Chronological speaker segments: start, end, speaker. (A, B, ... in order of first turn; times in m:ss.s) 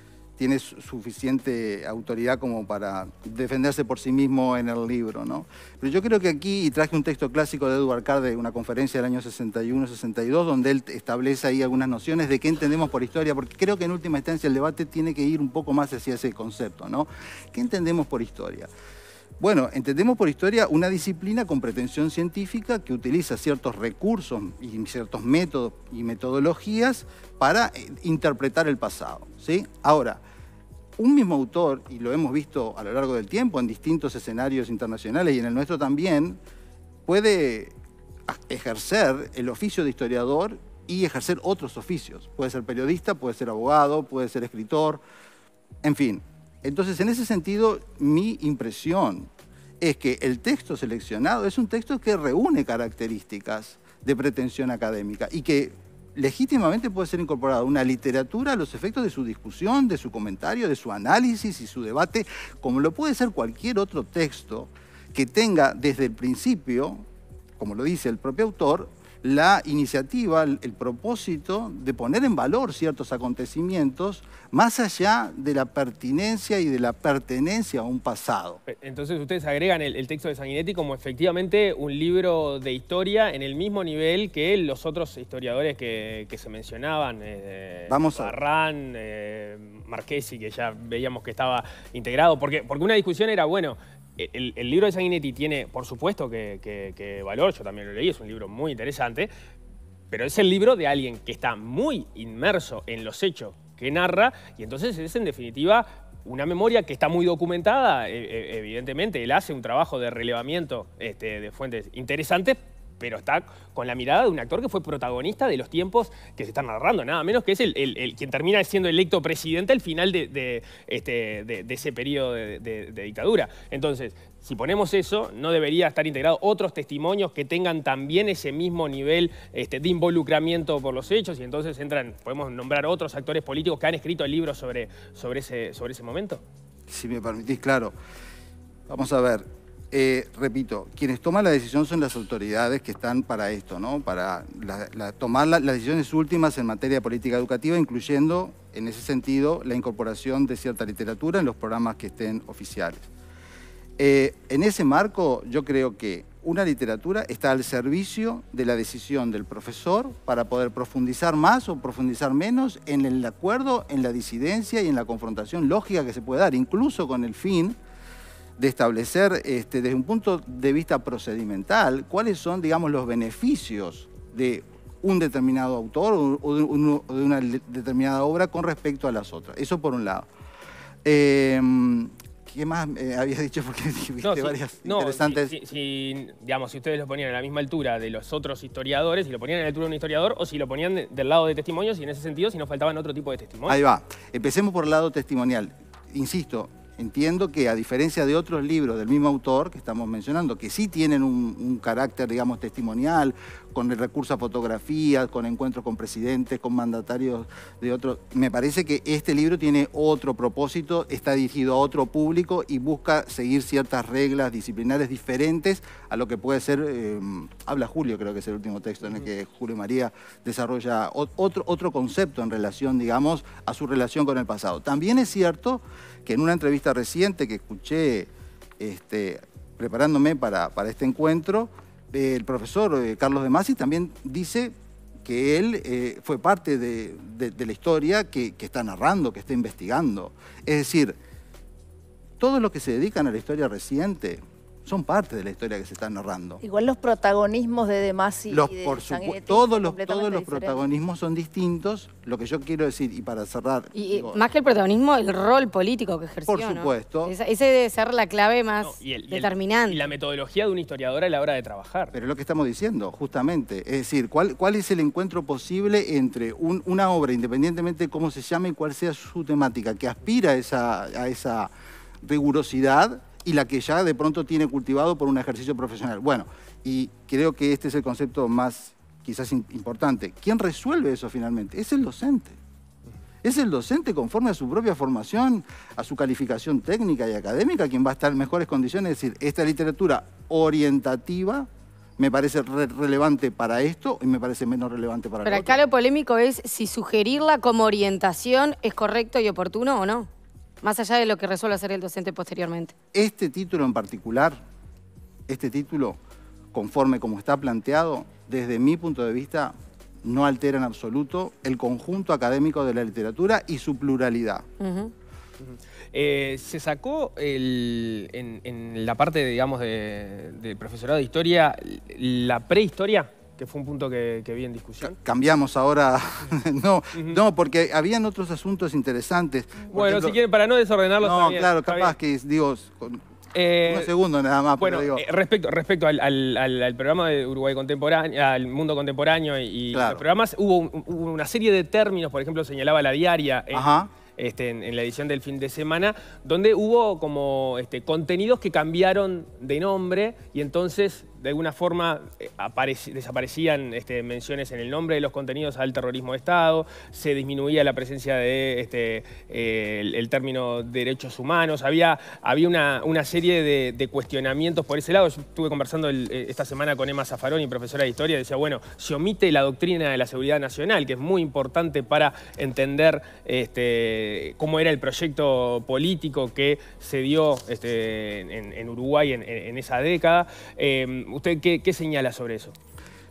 0:00.4-0:18.7 A
0:19.4-0:30.2 A
0:31.0-0:36.4 A
0:37.0-0:37.7 A
0:38.3-0:45.0 A
0:45.8-0:49.3 A
0:49.8-1:07.0 A
1:07.6-1:18.6 A
1:18.7-1:39.3 B
1:27.9-1:28.3 A
1:40.1-2:16.4 B
2:16.9-2:17.9 A
2:18.9-2:33.1 A
2:34.0-2:47.8 A
2:48.6-3:00.3 A
3:01.0-3:05.5 A
3:04.2-3:13.8 B
3:13.7-3:54.7 A
3:55.2-4:01.2 A
4:02.4-4:06.6 A
4:06.6-4:10.8 C
4:08.5-4:14.4 A
4:13.9-4:20.0 D
4:16.4-4:17.3 A
4:18.8-4:22.1 B
4:22.1-4:31.7 A
4:32.2-4:42.6 A
4:43.4-4:55.8 A
4:55.4-5:00.3 D
5:00.8-5:02.9 D
5:03.1-5:04.6 A
5:05.5-5:06.2 A
5:06.7-5:14.6 A
5:14.8-5:15.1 D
5:15.6-5:25.2 B
5:25.0-5:30.4 A
5:27.1-5:27.4 B
5:29.9-5:32.1 B
5:31.2-5:33.2 A
5:33.5-5:34.1 B
5:33.8-5:35.2 A
5:34.8-6:22.7 B
5:39.9-5:40.2 A
5:43.7-5:44.1 A